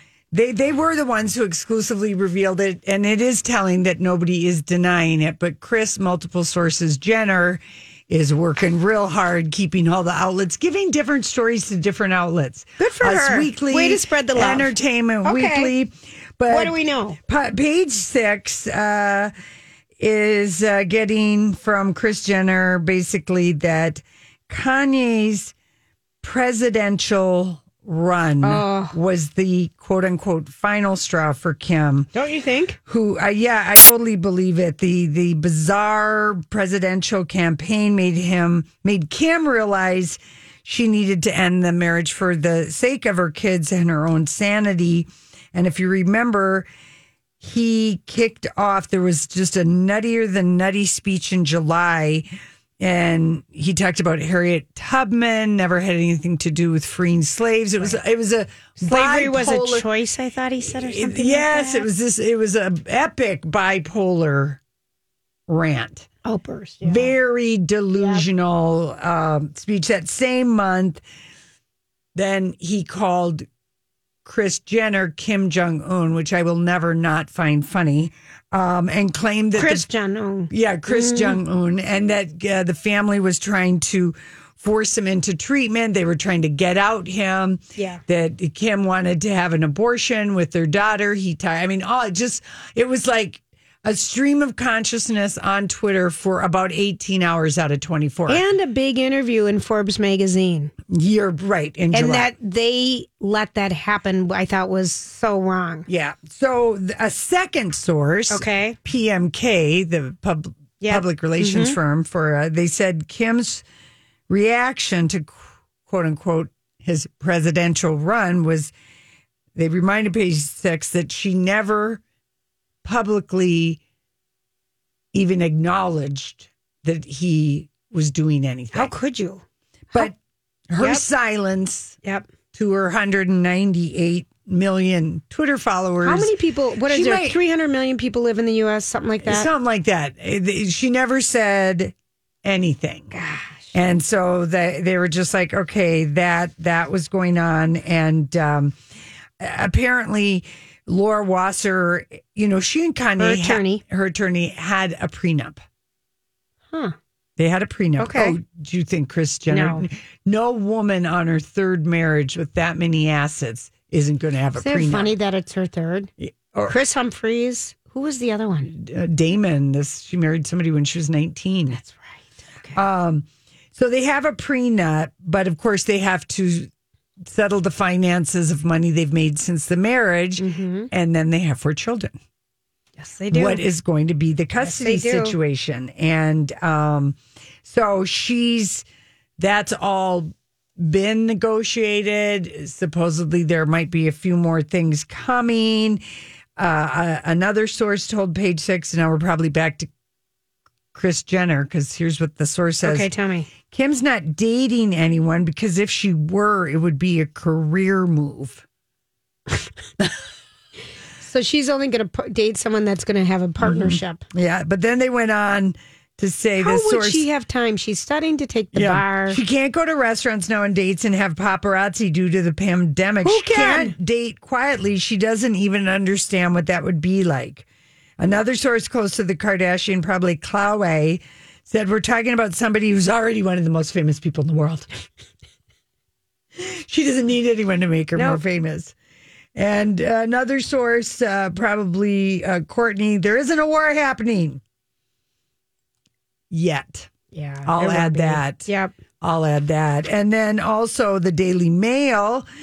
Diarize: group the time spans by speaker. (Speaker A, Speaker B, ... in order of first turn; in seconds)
Speaker A: 0.3-16.7, 17.3-19.3, 20.0-25.5, 26.2-32.1, 32.9-46.7, 47.4-52.3, 52.8-59.9, 60.6-64.6, 65.5-66.1, 66.8-71.0, 72.1-73.5, 74.2-79.8, 80.5-98.4, 100.9-102.3, 105.9-113.6, 114.3-118.7, 119.5-122.0, 122.8-123.8, 125.1-128.9, 130.7-132.0, 132.5-136.3, 136.9-137.4, 139.2-141.9, 142.4-143.1, 143.7-148.7, 149.4-155.6, 157.4-165.1, 166.2-166.8, 168.7-171.8, 172.7-176.7, 177.3-182.2, 183.3-188.8, 189.4-196.0, 196.6-199.9, 200.9-203.1, 203.7-208.6, 213.6-217.2, 218.7-227.6, 228.2-234.9, 236.6-238.9, 239.6-244.6, 246.5-247.1, 247.6-248.7, 249.2-252.4
Speaker B: 12.8-14.7, 15.2-15.7, 16.5-17.2, 28.4-28.9, 32.1-32.8, 58.8-61.9, 66.2-67.1, 68.0-68.2, 79.5-81.4, 87.8-88.0, 98.3-100.7, 101.9-105.9, 108.3-108.8, 110.8-111.8, 128.7-130.1, 130.8-131.0, 136.0-139.5, 143.1-143.7, 153.2-153.8, 158.0-158.4, 159.5-159.8, 164.6-166.1, 166.7-168.7, 171.7-172.8, 180.4-180.9, 183.0-183.6, 184.6-185.4, 202.8-203.5, 211.2-214.2, 216.6-219.4, 223.2-223.9, 238.2-238.4, 247.3-248.9